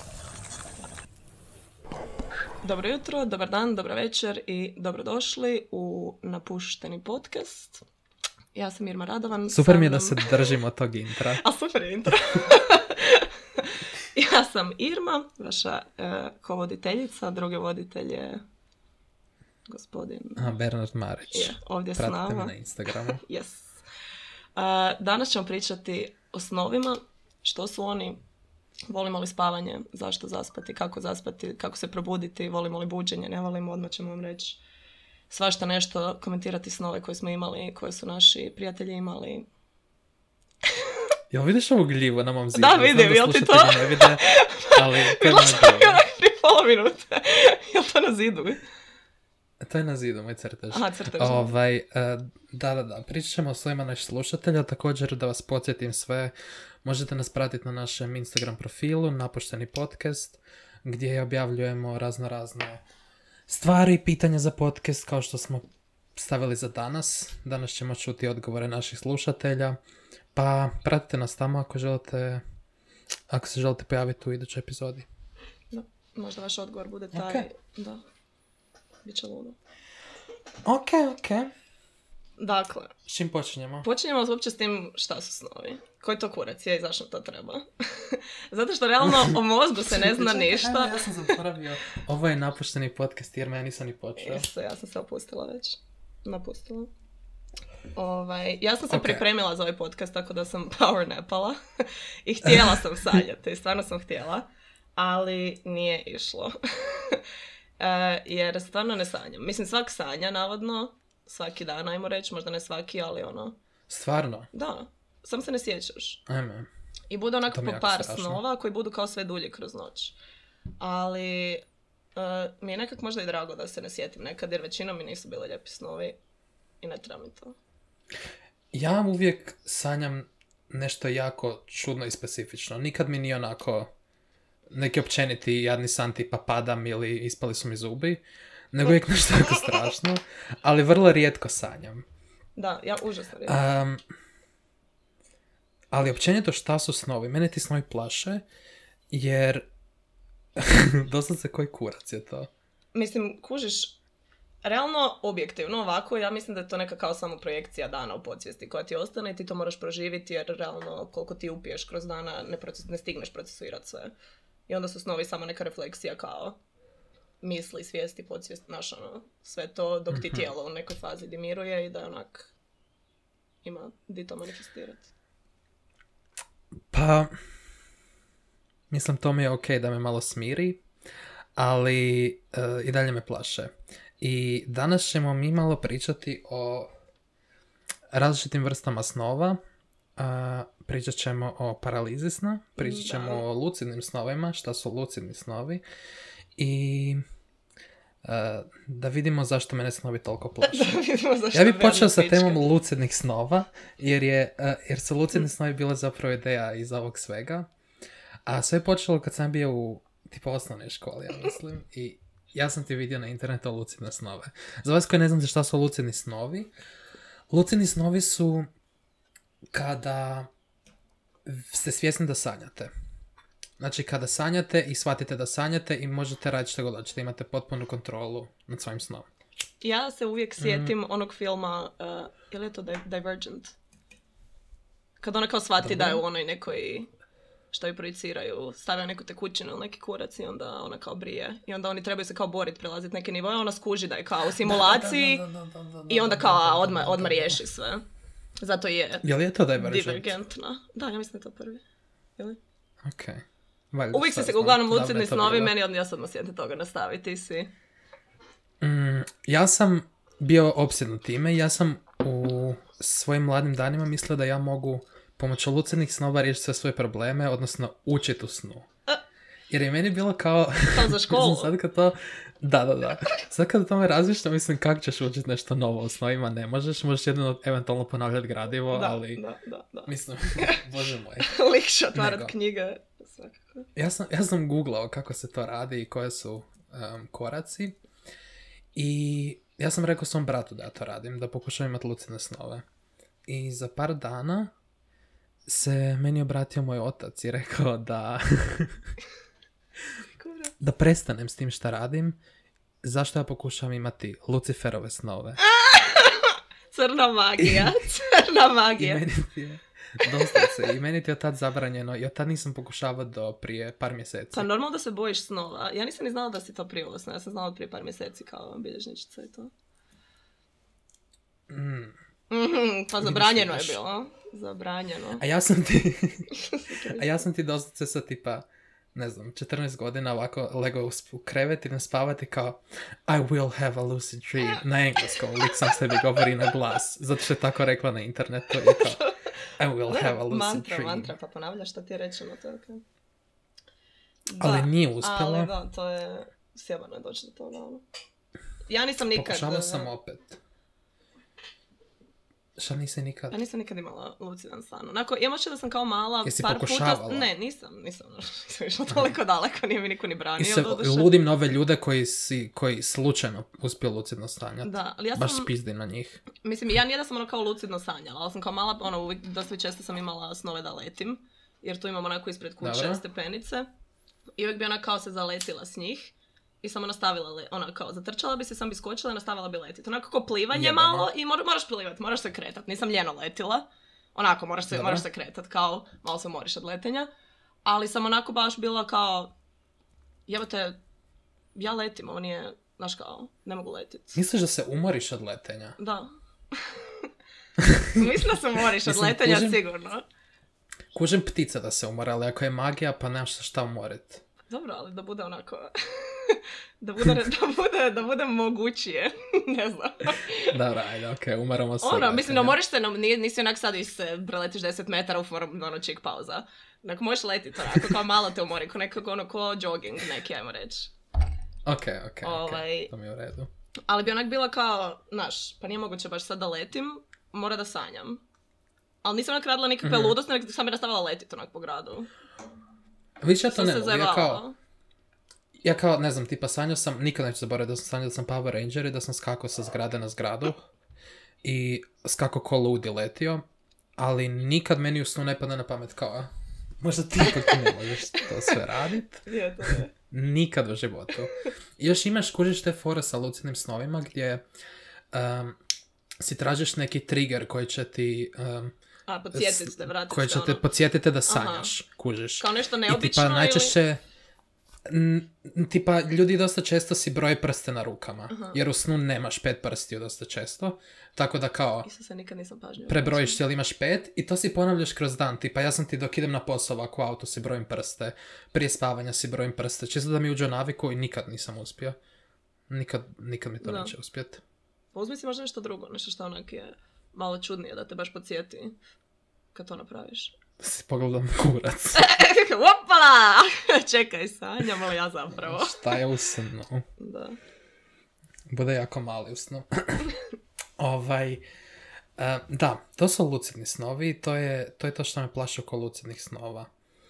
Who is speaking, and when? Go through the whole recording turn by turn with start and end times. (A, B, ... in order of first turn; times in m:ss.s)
0:02.6-0:07.8 A
0:08.6-0:10.3 A
0:09.5-0:11.4 B
0:11.4-0:18.4 A
0:19.7-0:20.5 A
0:20.4-0:23.2 B
0:21.3-0:23.8 A
0:24.6-0:28.2 A
0:28.9-0:34.6 A
0:35.3-0:39.5 A
0:41.3-0:46.0 B
0:42.5-0:48.6 A
0:49.6-1:02.8 B
0:50.7-0:51.5 A
1:03.5-1:09.8 B
1:10.4-1:12.4 B
1:13.3-1:15.1 B
1:15.7-1:18.0 A
1:17.1-1:17.5 B
1:19.0-1:19.6 A
1:20.6-1:21.5 B
1:22.4-1:22.9 A
1:23.1-1:23.9 B
1:23.8-1:31.1 A
1:29.0-1:29.4 B
1:29.9-1:34.5 B
1:34.2-1:36.9 A
1:37.9-1:47.2 A
1:38.9-1:39.2 B
1:47.8-1:53.6 A
1:53.9-1:54.5 B
1:54.5-1:56.2 A
1:56.3-1:56.7 B
1:57.1-2:00.2 A
1:57.5-1:58.4 B
2:00.8-2:01.6 A
2:02.2-2:06.2 A
2:06.8-2:07.6 A
2:08.7-2:13.9 B
2:14.7-2:22.1 B
2:22.6-2:23.6 A
2:23.5-2:24.0 B
2:25.9-2:28.5 B
2:29.1-2:29.7 B
2:30.6-2:32.5 B
2:32.9-2:34.0 A
2:34.6-2:44.1 A
2:44.7-2:46.6 A
2:47.4-2:52.5 A
2:50.1-2:50.5 B
2:53.6-2:55.1 A
2:56.9-2:57.3 B
2:58.9-3:00.8 B
3:01.6-3:06.9 B
3:08.1-3:09.6 B
3:10.2-3:15.8 B
3:12.8-3:13.5 A
3:16.6-3:17.2 B
3:18.2-3:21.0 B
3:20.6-3:22.7 A
3:21.5-3:27.7 B
3:28.5-3:36.7 B
3:37.5-3:38.7 B
3:39.7-3:40.5 B
3:41.4-3:42.9 B
3:43.8-3:49.3 B
3:49.8-3:53.8 A
3:50.6-3:50.9 B
3:55.2-3:57.1 A
3:55.8-3:56.2 B
3:57.7-4:05.4 A
4:04.6-4:07.6 B
4:06.1-4:08.0 A
4:08.6-4:09.2 A
4:09.2-4:10.4 B
4:09.8-4:11.8 A
4:13.0-4:15.7 B
4:14.1-4:17.7 A
4:18.8-4:28.9 B
4:29.7-4:39.4 B
4:30.9-4:31.7 A
4:38.9-4:40.8 A
4:40.1-4:41.6 B
4:41.4-4:43.9 A
4:42.1-4:42.5 B
4:44.0-4:48.0 B
4:49.0-4:52.8 B
4:53.5-4:54.7 B
4:55.7-4:59.0 B
5:00.4-5:00.8 A
5:00.8-5:02.4 B
5:03.0-5:05.6 B
5:05.6-5:09.2 A
5:07.6-5:08.0 B
5:09.0-5:14.7 B
5:10.3-5:10.8 A
5:14.5-5:19.7 A
5:21.7-5:22.2 B
5:22.5-5:25.4 A
5:23.2-5:24.0 B
5:25.4-5:26.5 B
5:26.6-5:27.3 A
5:27.1-5:39.3 B
5:38.8-5:39.5 A
5:39.8-5:41.3 B
5:40.1-5:43.0 A
5:44.5-5:48.0 A
5:44.6-5:45.7 B
5:48.9-5:50.1 A
5:49.3-5:50.6 B
5:52.8-5:53.6 B
5:53.5-6:01.3 A
5:56.4-5:57.5 B
6:00.6-6:06.4 B
6:04.8-6:05.7 A
6:06.6-6:13.9 A
6:12.8-6:13.2 B
6:14.6-6:27.3 A
6:20.7-6:21.3 B
6:24.9-6:25.2 B
6:27.8-6:29.5 A
6:30.5-6:31.0 A
6:31.8-6:34.4 A
6:34.4-6:36.0 B
6:36.0-6:37.3 A
6:37.8-6:39.8 B
6:38.1-6:40.2 A
6:41.1-6:44.4 B
6:44.7-6:50.8 A
6:50.7-6:52.8 B
6:52.0-7:01.1 A
7:01.9-7:03.7 B
7:02.4-7:03.1 A
7:04.1-7:08.4 A
7:09.2-7:12.3 A
7:10.0-7:10.4 B
7:13.4-7:14.6 B
7:13.7-7:14.8 A
7:15.8-7:20.8 B
7:21.6-7:23.6 B
7:24.2-7:34.6 B
7:27.5-7:28.8 A
7:29.4-7:30.1 A
7:35.3-7:35.8 B
7:36.4-7:38.9 B
7:39.3-7:40.8 A
7:39.5-7:44.2 B
7:41.5-7:41.9 A
7:42.6-7:44.0 A
7:45.1-7:52.1 B
7:48.5-7:48.8 A
7:52.0-7:53.6 A
7:53.1-8:02.2 B
8:02.9-8:04.6 B
8:03.8-8:04.1 A
8:05.1-8:09.0 A
8:09.7-8:10.6 A
8:10.8-8:12.3 B
8:12.1-8:16.2 A
8:15.6-8:17.1 B
8:17.2-8:17.6 A
8:18.7-8:20.3 B
8:21.0-8:21.6 B
8:22.4-8:26.9 B